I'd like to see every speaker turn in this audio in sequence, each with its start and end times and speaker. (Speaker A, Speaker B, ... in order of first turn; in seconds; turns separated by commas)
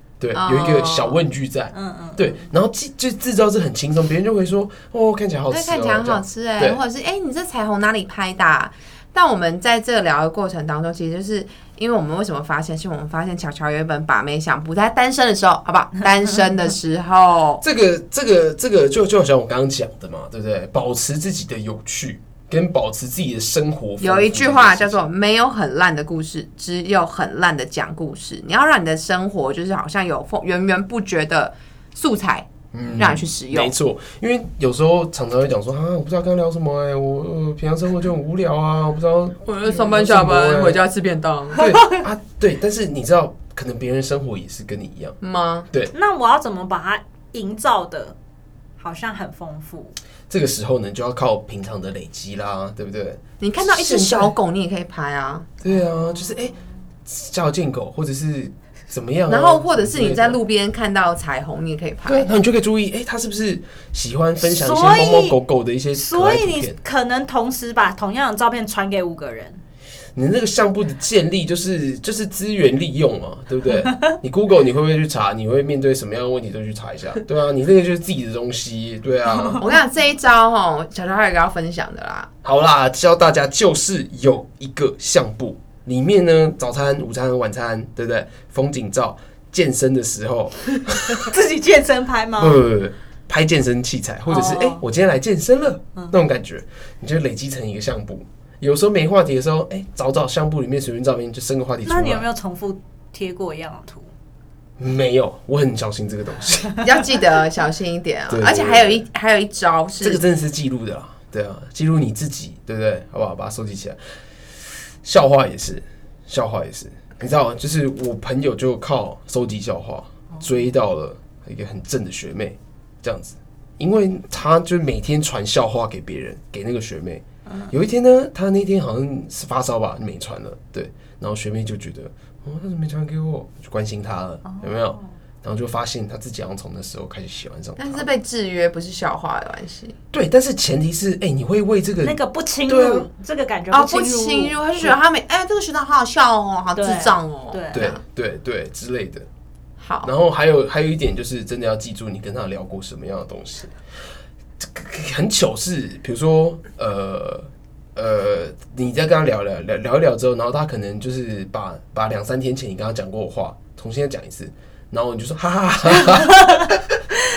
Speaker A: 0.2-6.8, Speaker B: 0.3-1.2, Speaker C: 1.7-2.4, Speaker B: 5.5-17.6, Speaker A: 17.6-25.0, Speaker B: 24.0-33.7, Speaker A: 32.7-40.8, Speaker B: 39.4-41.6, Speaker A: 41.6-45.1, Speaker B: 45.2-45.7, Speaker C: 45.9-48.1, Speaker C: 48.8-50.0, Speaker A: 50.3-54.4, Speaker B: 53.4-55.5, Speaker A: 55.6-60.4, Speaker C: 55.6-55.9, Speaker B: 59.3-62.3, Speaker A: 62.0-66.8, Speaker C: 64.4-65.4, Speaker C: 66.0-69.6, Speaker A: 70.1-79.6, Speaker B: 79.6-82.3, Speaker A: 82.4-91.2, Speaker C: 91.2-92.6, Speaker A: 92.4-102.2, Speaker C: 94.3-94.8, Speaker C: 101.8-104.1, Speaker A: 104.8-106.9, Speaker B: 106.8-110.2, Speaker A: 108.3-109.0, Speaker A: 110.0-114.0, Speaker A: 115.0-138.1, Speaker C: 127.5-127.7, Speaker C: 134.4-135.0, Speaker B: 137.8-139.9, Speaker A: 140.1-143.1, Speaker C: 142.0-144.9, Speaker B: 143.7-148.0, Speaker C: 146.8-147.8, Speaker A: 147.7-149.2, Speaker B: 149.8-150.1, Speaker A: 150.0-153.7, Speaker A: 154.6-167.0